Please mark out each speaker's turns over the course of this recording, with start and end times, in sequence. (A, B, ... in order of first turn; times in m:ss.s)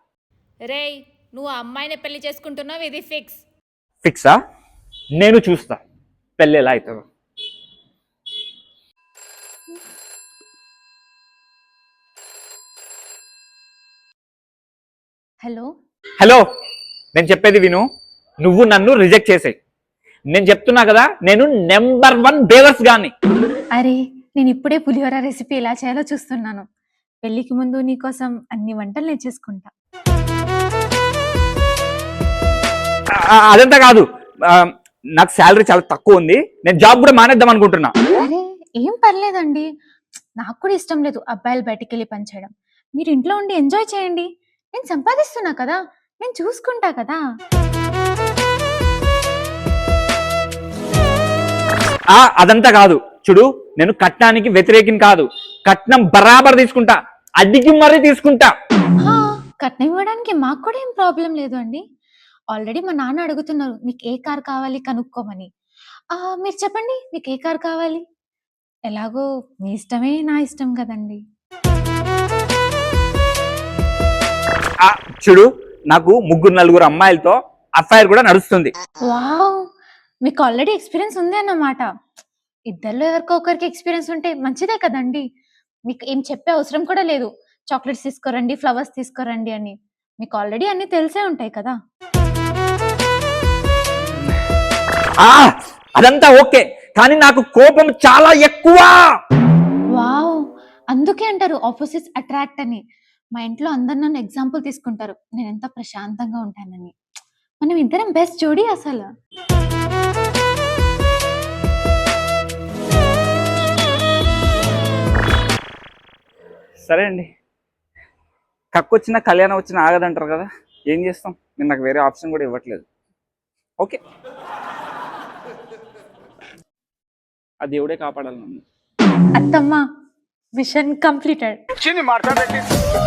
0:00.6-0:03.4 A
0:04.0-0:04.4 B
0:05.2-0:05.8 B
0:06.4-0:07.0 B
0:17.1-0:17.8 B
0:18.4-0:19.5 B
0:20.3-0:23.1 B
0:23.8-0:26.6 C
0:27.2-0:29.7 C
0:33.2-0:37.9 B
0:38.2-0:39.6 C
0:40.4-0:47.2 C
0:52.1-0:58.5 B
0:59.0-1:01.8 C
1:02.5-1:05.5 C
1:06.1-1:08.0 C
1:08.9-1:11.2 C
1:14.8-1:18.7 B
1:19.0-1:19.6 C
1:20.2-1:21.8 C
1:22.7-1:25.2 C
1:25.9-1:31.7 C
1:35.2-1:39.0 B
1:39.9-1:40.4 C
1:40.9-1:42.8 C
1:43.4-1:46.9 C
1:47.6-1:49.0 C
1:56.8-1:57.3 B
1:58.7-2:02.8 B
2:07.6-2:08.6 B
2:09.4-2:09.8 C
2:10.6-2:11.6 C
2:11.8-2:12.6 A